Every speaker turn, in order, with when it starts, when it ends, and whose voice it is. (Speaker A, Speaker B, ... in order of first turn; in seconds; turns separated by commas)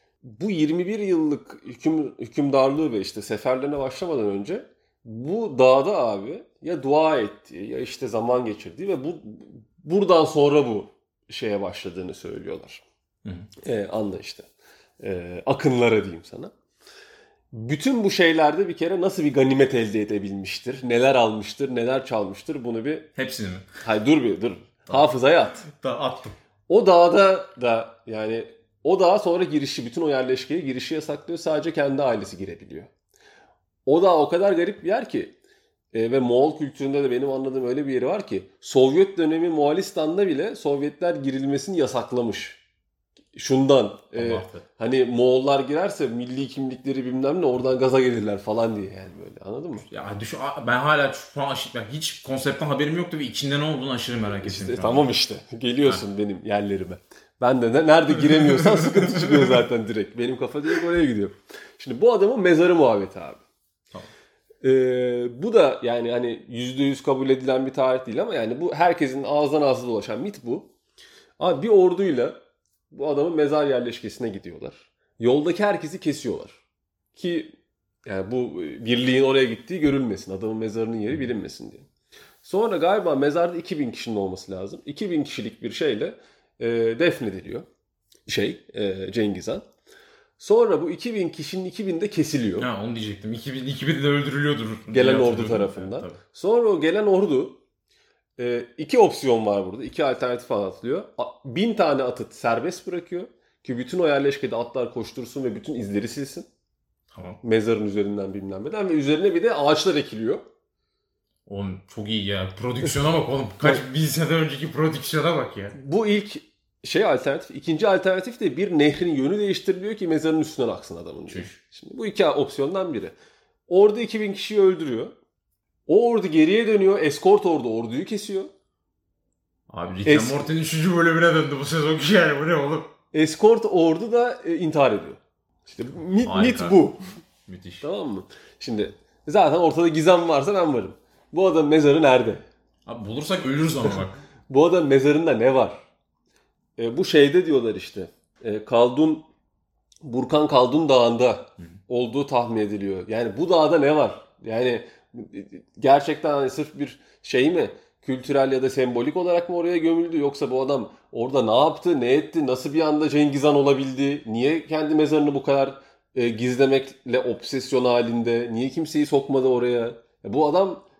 Speaker A: 0.2-12.8, Speaker A: 13.6-14.5, Speaker A: 15.0-16.5, Speaker A: 17.5-23.1, Speaker B: 23.1-23.7, Speaker A: 23.8-25.7, Speaker B: 25.7-26.4, Speaker A: 26.7-32.9, Speaker A: 33.9-35.3, Speaker A: 35.9-42.6, Speaker A: 43.3-49.9, Speaker B: 44.1-44.6, Speaker B: 49.9-55.1, Speaker A: 54.4-63.4, Speaker B: 58.4-59.5, Speaker A: 64.6-70.7, Speaker A: 71.4-72.3, Speaker A: 72.9-76.6, Speaker A: 77.1-77.5, Speaker A: 78.0-81.9, Speaker A: 82.4-87.7, Speaker A: 88.2-89.7, Speaker A: 90.4-92.7, Speaker B: 92.6-96.2, Speaker A: 94.9-97.6, Speaker A: 98.4-106.5, Speaker B: 107.1-107.4, Speaker A: 107.4-110.4, Speaker B: 111.5-115.7, Speaker A: 115.7-123.1, Speaker B: 121.3-121.5, Speaker A: 123.7-125.1, Speaker A: 125.9-128.5, Speaker B: 129.7-132.9, Speaker A: 130.1-130.4, Speaker A: 133.1-137.0, Speaker B: 136.2-136.8, Speaker B: 137.5-137.8, Speaker A: 137.8-142.4, Speaker B: 142.8-144.2, Speaker A: 144.5-145.8, Speaker A: 146.8-149.2, Speaker A: 150.0-170.8